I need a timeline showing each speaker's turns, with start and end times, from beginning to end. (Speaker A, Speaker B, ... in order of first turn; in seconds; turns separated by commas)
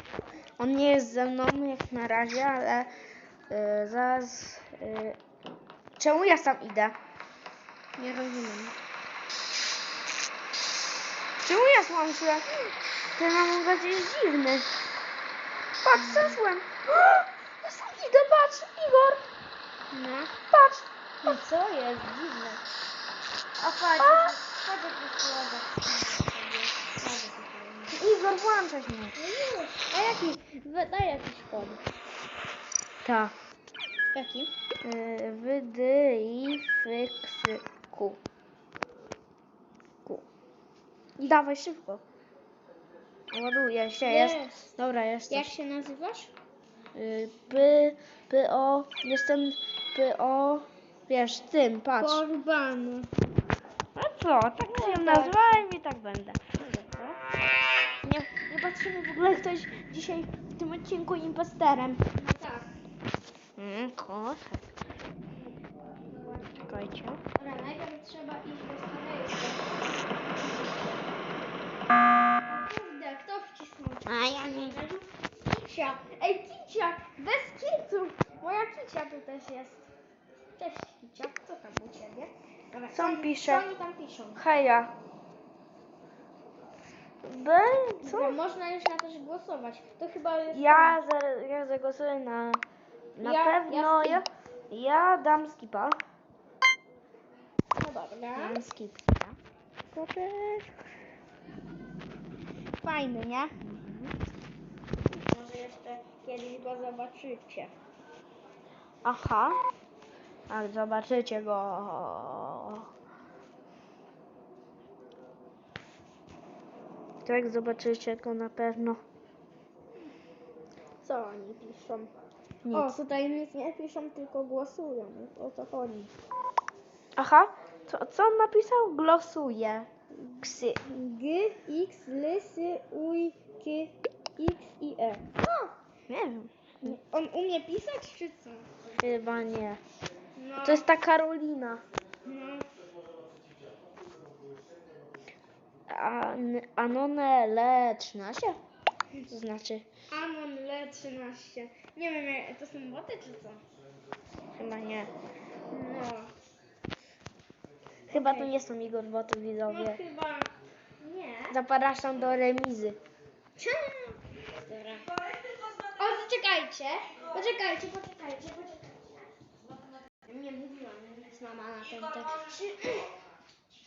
Speaker A: 0.6-2.9, Speaker A: 3.5-5.2, Speaker A: 6.0-7.0, Speaker B: 8.0-8.8, Speaker A: 11.4-14.7, Speaker A: 15.8-19.2, Speaker B: 15.9-16.4, Speaker B: 19.9-20.4, Speaker A: 20.5-21.4, Speaker B: 21.2-22.6, Speaker B: 23.6-28.0, Speaker A: 24.0-24.4, Speaker A: 27.9-29.2, Speaker B: 29.1-31.8, Speaker A: 33.0-33.4, Speaker B: 34.1-34.5, Speaker A: 34.8-38.2, Speaker A: 41.2-42.0, Speaker A: 43.3-45.5, Speaker B: 44.0-44.7, Speaker B: 45.3-46.3, Speaker A: 47.0-52.2, Speaker B: 52.0-53.1, Speaker A: 54.0-56.6, Speaker B: 54.7-55.7, Speaker B: 56.6-57.2, Speaker A: 58.0-62.0, Speaker B: 62.1-62.7, Speaker A: 63.6-64.7, Speaker B: 66.1-66.7, Speaker A: 66.6-67.2, Speaker B: 67.3-70.4, Speaker B: 72.5-79.9, Speaker A: 74.1-74.8, Speaker B: 80.6-84.4, Speaker A: 82.9-83.7, Speaker A: 84.4-84.9, Speaker A: 87.2-88.4, Speaker B: 88.0-91.0, Speaker A: 90.5-92.6, Speaker A: 93.2-96.0, Speaker B: 93.2-94.2, Speaker B: 97.8-98.6, Speaker A: 98.4-99.4, Speaker A: 100.0-100.7, Speaker B: 102.8-103.5, Speaker A: 103.7-104.1, Speaker B: 105.1-107.7, Speaker A: 109.0-109.6, Speaker A: 110.5-112.9, Speaker A: 117.2-119.0, Speaker B: 121.0-122.1, Speaker A: 122.7-122.9, Speaker B: 122.7-126.1, Speaker A: 127.2-129.9, Speaker B: 130.2-135.8, Speaker A: 130.4-130.8, Speaker A: 136.1-136.9, Speaker B: 136.8-138.9, Speaker A: 139.0-139.8, Speaker B: 140.4-140.9, Speaker A: 140.6-141.8, Speaker B: 142.2-142.7, Speaker A: 145.9-148.6, Speaker A: 149.3-149.9, Speaker B: 150.1-153.6, Speaker A: 154.6-155.1, Speaker B: 155.7-156.3, Speaker A: 158.1-160.0, Speaker B: 158.1-158.6, Speaker B: 159.7-161.6, Speaker A: 161.5-163.0, Speaker B: 163.6-165.2, Speaker B: 165.8-169.3, Speaker B: 170.2-173.1